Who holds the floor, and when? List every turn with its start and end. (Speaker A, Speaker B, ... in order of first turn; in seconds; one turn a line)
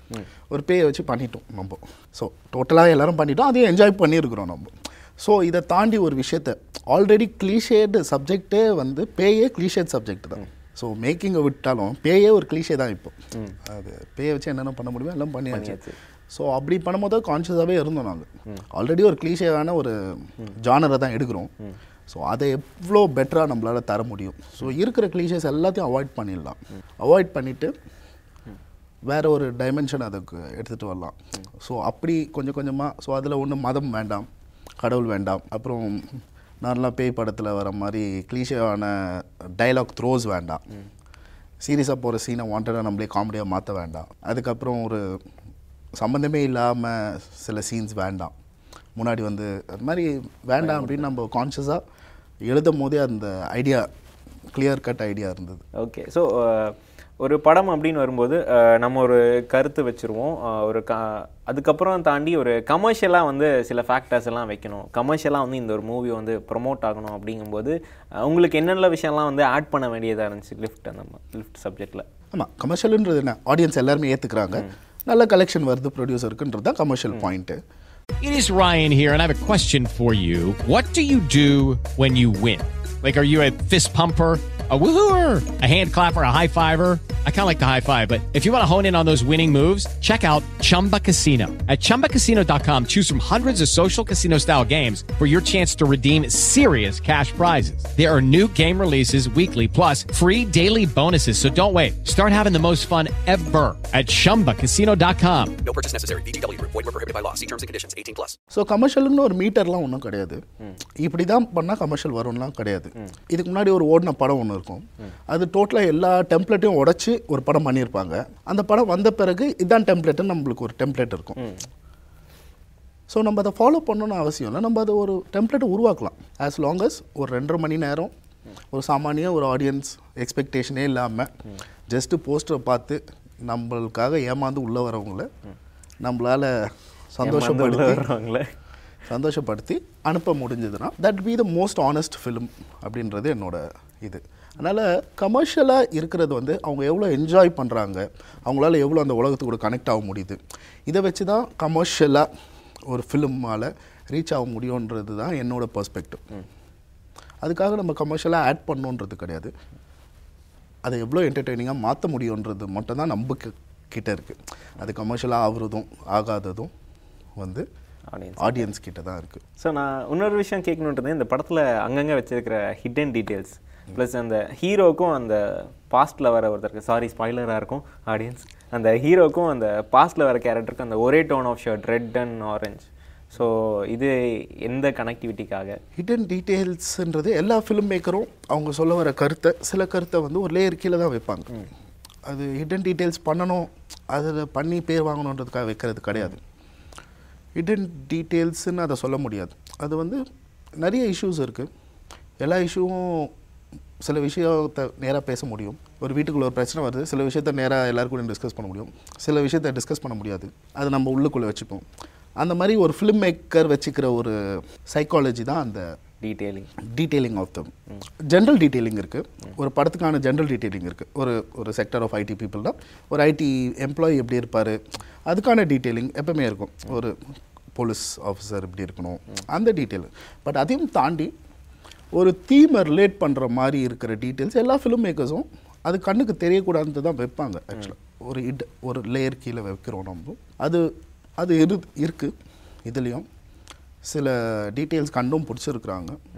Speaker A: 0.5-15.8
Speaker B: 15.5-16.0
Speaker A: 16.3-21.5
Speaker A: 22.1-27.7
Speaker A: 29.1-34.3
Speaker A: 34.8-40.6
Speaker A: 41.6-45.2
Speaker A: 45.9-48.3
Speaker A: 49.0-51.8
Speaker B: 50.6-51.1
Speaker A: 52.4-53.9
Speaker A: 54.5-55.6
Speaker B: 55.8-72.0
Speaker A: 72.3-77.6
Speaker C: 78.2-105.5
Speaker D: 105.6-108.4
Speaker A: 108.5-110.4
Speaker A: 111.0-121.4
Speaker B: 121.4-121.7
Speaker A: 123.1-128.1
Speaker A: 128.7-131.3
Speaker A: 131.9-135.3
Speaker A: 136.0-138.0
Speaker B: 137.2-138.5
Speaker A: 139.1-152.3
Speaker A: 152.9-156.3
Speaker A: 157.4-159.5
Speaker A: 160.8-166.7
Speaker A: 167.4-167.7
Speaker B: 168.1-168.7
Speaker A: 168.4-169.4
Speaker B: 169.6-185.8
Speaker A: 185.9-191.5
Speaker A: 192.2-196.4
Speaker A: 197.6-200.2
Speaker A: 200.8-201.7
Speaker A: 202.4-203.3
Speaker A: 204.0-211.8
Speaker A: 212.4-215.8
Speaker B: 216.2-216.7
Speaker A: 216.8-217.7
Speaker A: 218.2-231.3
Speaker A: 232.1-242.3
Speaker A: 242.8-243.3
Speaker A: 244.0-246.2